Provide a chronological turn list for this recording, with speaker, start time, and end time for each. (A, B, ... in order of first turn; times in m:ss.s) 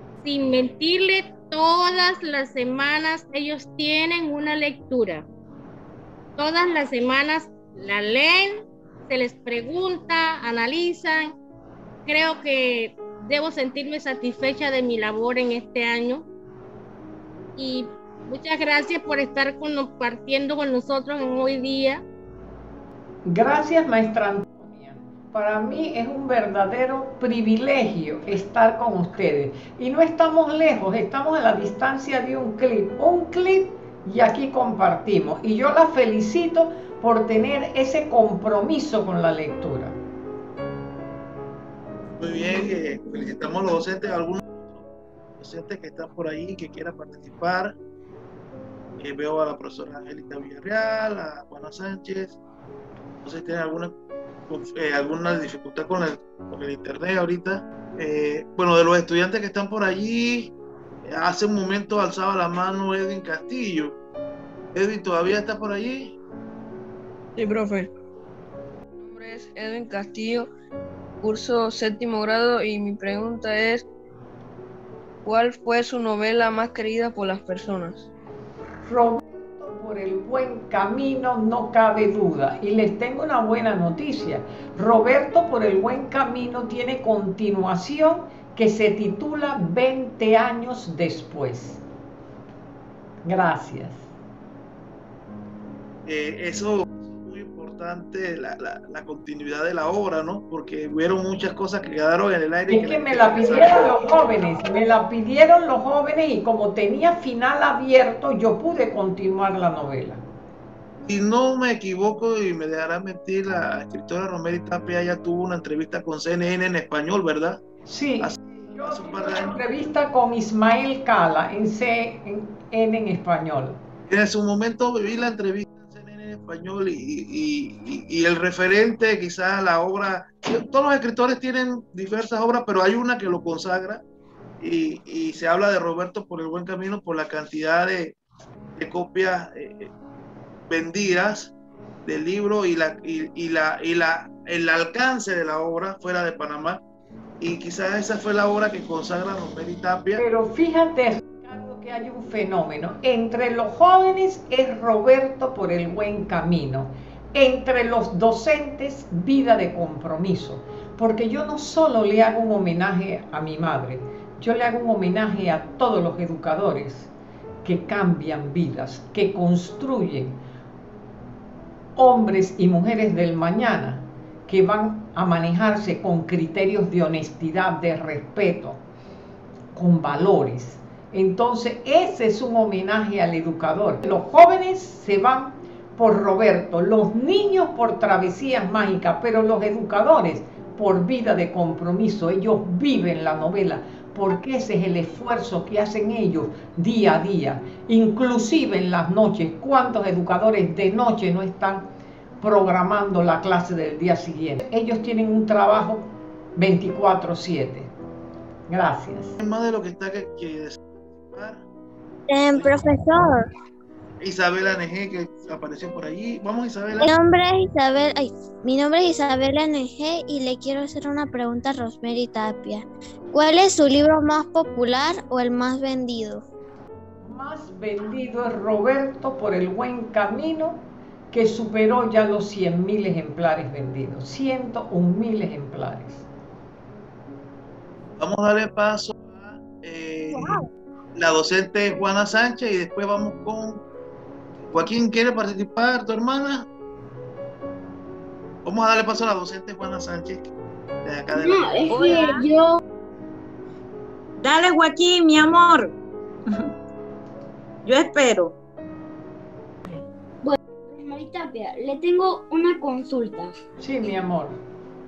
0:00.2-0:05.3 A
0:06.4-0:11.4 A
0:12.1-0:16.3 A
0:17.6-0:22.0 A
0:23.2-0:40.0 B
0:42.2-0:44.8 C
0:45.4-0:47.7 C
0:49.0-0:52.4 C
0:53.2-0:53.9 C
0:54.5-1:00.5 C
1:01.0-1:04.0 C
1:04.7-1:06.1 C
1:07.4-1:07.9 D
1:09.0-1:10.5 D
1:11.2-1:13.9 D
1:15.2-1:18.1 D
1:18.8-1:31.8 B
1:33.2-1:34.1 B
1:36.1-1:43.8 C
1:42.7-1:50.2 B
1:51.0-1:57.6 C
1:57.9-2:03.8 B
1:58.2-1:59.6 C
2:04.1-2:14.0 C
2:14.6-2:18.2 C
2:18.8-2:19.9 C
2:20.7-2:21.5 C
2:22.1-2:26.8 C
2:27.4-2:30.2 C
2:30.2-2:47.1 B
2:47.6-2:50.4 B
2:52.0-2:58.8 B
2:59.7-3:21.9 B
3:22.4-3:27.9 B
3:28.7-3:29.4 B
3:29.4-3:31.6 C
3:32.3-3:33.5 E
3:32.5-3:32.8 C
3:34.2-3:37.1 C
3:37.0-3:46.4 E
3:47.2-3:56.3 B
3:58.2-4:00.6 C
4:01.2-4:03.8 C
4:04.7-4:06.7 C
4:08.6-4:10.5 C
4:11.0-4:12.1 C
4:11.3-4:12.8 F
4:14.4-4:15.9 G
4:17.8-4:18.6 G
4:20.4-4:23.5 F
4:23.8-4:24.6 B